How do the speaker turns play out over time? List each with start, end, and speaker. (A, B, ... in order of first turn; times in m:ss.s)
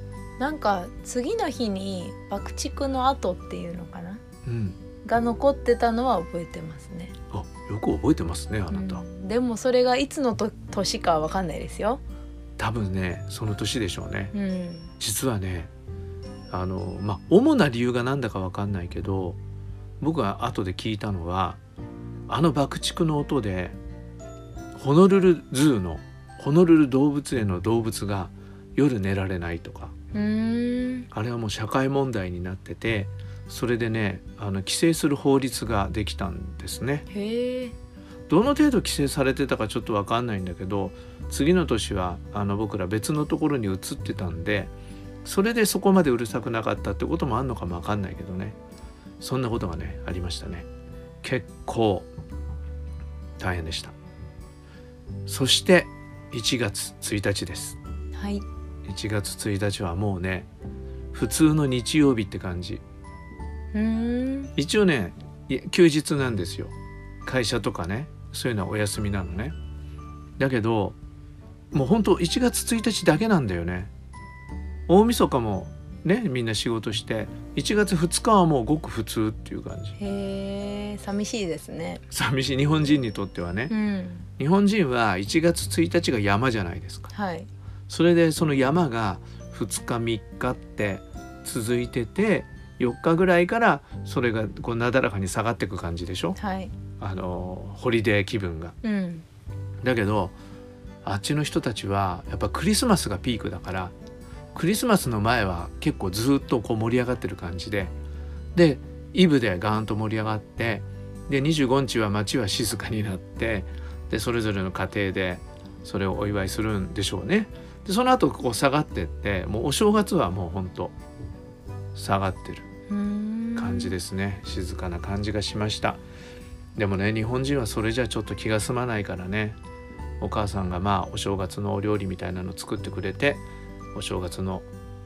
0:00.4-0:04.2 A
0:04.4-0:04.8 B
0:05.0-0:07.1 A
0:07.3-0:09.0 B
0:08.7-0:12.0 A
0:12.6-0:14.3 B
0:14.3-0:14.9 A
0:15.0-0:15.7 B
0:16.5-0:19.4 B
0:20.0-0:21.6 B
0:22.3-0:23.8 B
0:24.8-0:29.9 B
0:30.1-0:31.1 A
0:31.1-0:37.1 B
0:37.1-0:37.7 A
0:38.3-0:44.7 B
0:45.2-0:48.6 B
0:49.2-0:50.7 B
0:51.2-0:52.1 B
0:53.4-0:53.9 B
0:55.2-0:57.8 B
0:58.1-0:58.4 A
0:58.8-1:00.5 B
1:01.1-1:02.8 B
1:03.7-1:04.5 A
1:04.6-1:09.5 B
1:10.4-1:11.0 B
1:11.7-1:13.9 B
1:14.9-1:20.0 B
1:20.0-1:22.0 A
1:22.1-1:23.7 B
1:23.7-1:24.2 A
1:24.4-1:27.1 B
1:27.1-1:27.5 A
1:27.9-1:36.4 B
1:36.4-1:36.7 A
1:37.0-1:38.8 B
1:38.8-1:39.2 A
1:39.8-1:40.4 B
1:41.0-1:43.9 B
1:44.5-1:47.9 B
1:48.5-2:00.9 B
2:01.9-2:02.7 B
2:02.9-2:04.0 A
2:03.6-2:06.0 B
2:06.8-2:09.6 B
2:10.2-2:13.4 B
2:13.9-2:14.7 B